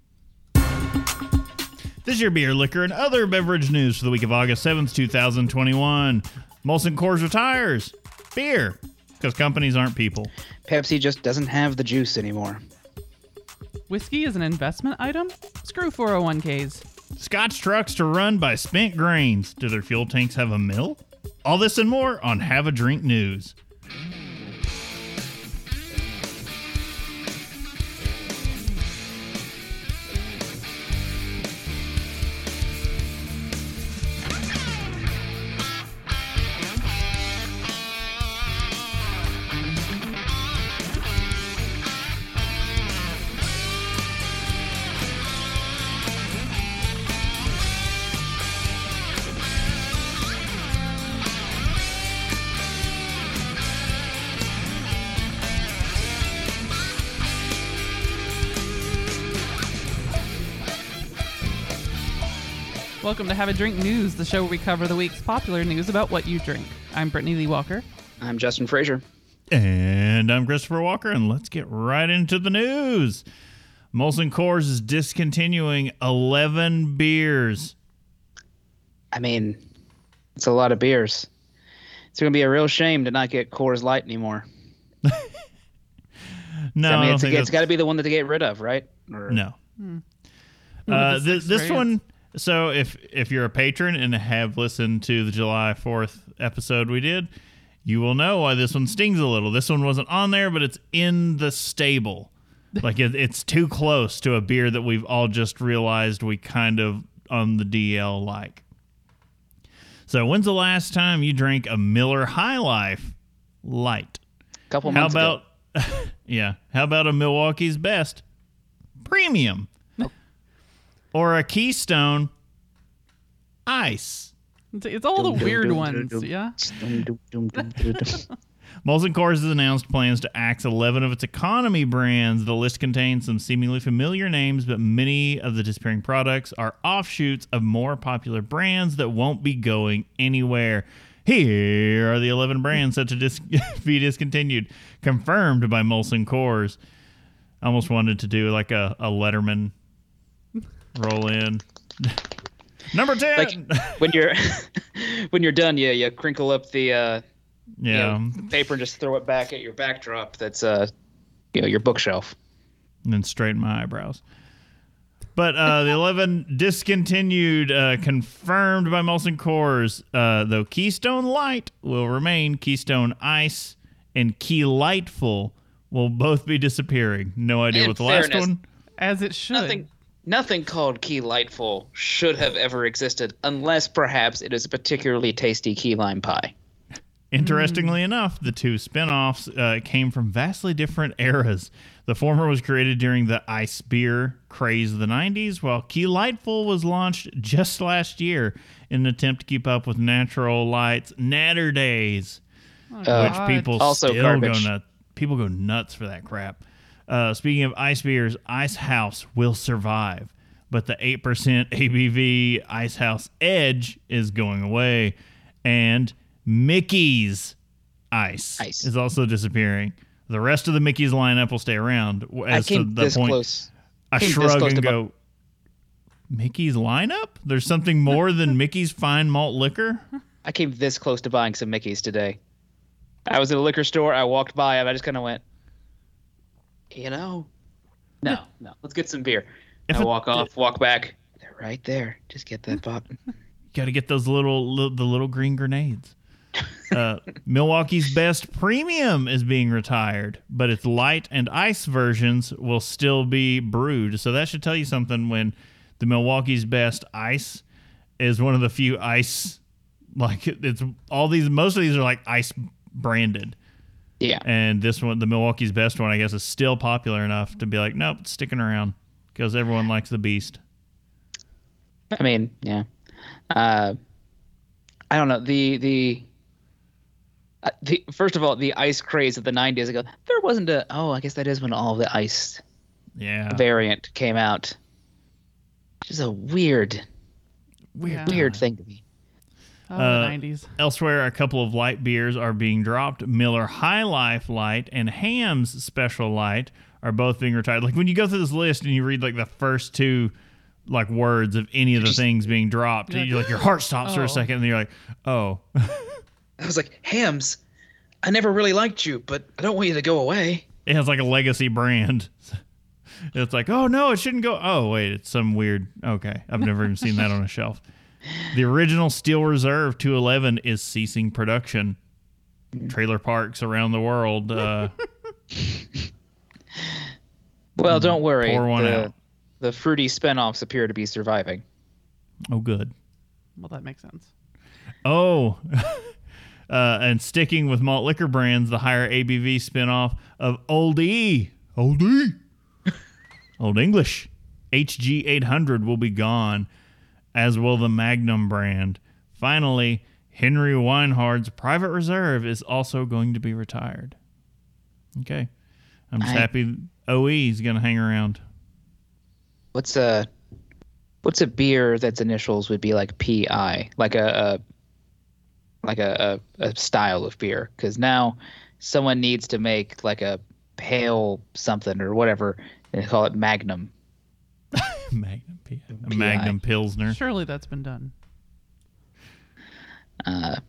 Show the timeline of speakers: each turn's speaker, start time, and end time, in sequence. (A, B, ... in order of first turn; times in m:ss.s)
0:02.0-0:10.3 A
0:10.7-0:12.6 B
0:13.9-0:16.8 C
0:17.2-0:23.5 A
1:03.0-1:07.8 C
1:08.2-1:09.0 B
1:09.5-1:13.2 A
1:13.9-1:17.7 A
1:19.1-1:19.6 B
1:20.4-1:21.3 B
1:22.1-1:24.4 B
1:25.0-1:25.3 A
1:26.7-1:27.6 A
1:26.8-1:29.4 B
1:29.3-1:29.6 A
1:30.9-1:31.8 C
1:30.9-1:37.3 A
1:37.8-1:48.6 A
1:50.1-1:54.2 A
1:54.7-1:55.4 B
1:54.9-1:58.2 A
1:59.0-1:59.7 A
2:01.1-2:02.3 A
2:03.6-2:04.3 A
2:04.7-2:06.6 C
2:05.2-2:08.2 B
2:07.6-2:08.3 C
2:08.8-2:26.8 A
2:27.6-2:29.7 A
2:30.9-2:32.2 A
2:32.9-2:34.2 A
2:33.3-2:37.2 B
2:37.8-2:38.5 A
2:37.9-2:40.9 B
2:41.5-2:42.3 B
2:43.0-2:44.2 A
2:45.4-2:58.6 A
2:57.7-2:58.5 B
2:59.0-2:59.8 C
2:59.5-3:06.5 B
3:07.3-3:22.4 A
3:07.4-3:08.0 C
3:22.9-3:23.8 C
3:23.0-3:24.7 B
3:23.1-3:35.1 A
3:35.6-3:37.5 A
3:38.1-3:43.4 A
3:38.6-3:38.9 B
3:42.5-3:44.9 B
3:44.1-3:45.1 A
3:46.3-3:50.0 A
3:50.4-3:52.4 B
3:53.3-3:55.4 B
3:56.9-3:57.5 B
3:58.2-4:03.2 B
3:59.9-4:00.4 A
4:03.7-4:06.1 A
4:06.9-4:17.6 A
4:18.2-4:19.6 A
4:20.2-4:23.6 A
4:24.4-4:30.6 A
4:32.1-4:32.8 B
4:33.5-4:34.0 B
4:35.1-4:36.3 B
4:37.6-4:42.6 B
4:43.2-4:43.6 A
4:43.5-4:44.8 B
4:46.0-4:47.0 B
4:47.9-4:48.6 A
4:48.1-4:48.3 C
4:48.2-4:49.0 B
4:49.9-4:50.7 C
4:50.0-5:00.3 A
5:00.9-5:06.2 A
5:03.1-5:04.4 C
5:06.6-5:07.6 B
5:08.2-5:10.6 B
5:10.8-5:12.6 A
5:13.3-5:17.8 A
5:18.4-5:22.0 A
5:22.9-5:24.9 A
5:27.8-5:29.1 A
5:27.8-5:31.6 B
5:32.5-5:32.9 A
5:33.6-5:34.3 C
5:35.0-5:36.2 A
5:36.7-5:42.4 A
5:43.6-5:46.7 A
5:47.3-5:54.2 A
5:55.2-5:55.5 A
5:56.1-5:58.4 A
5:56.2-5:56.5 B
5:59.7-6:00.3 B
6:01.2-6:04.6 B
6:05.8-6:13.9 B
6:14.7-6:17.2 A
6:16.0-6:16.5 B
6:17.0-6:18.1 C
6:20.2-6:20.6 B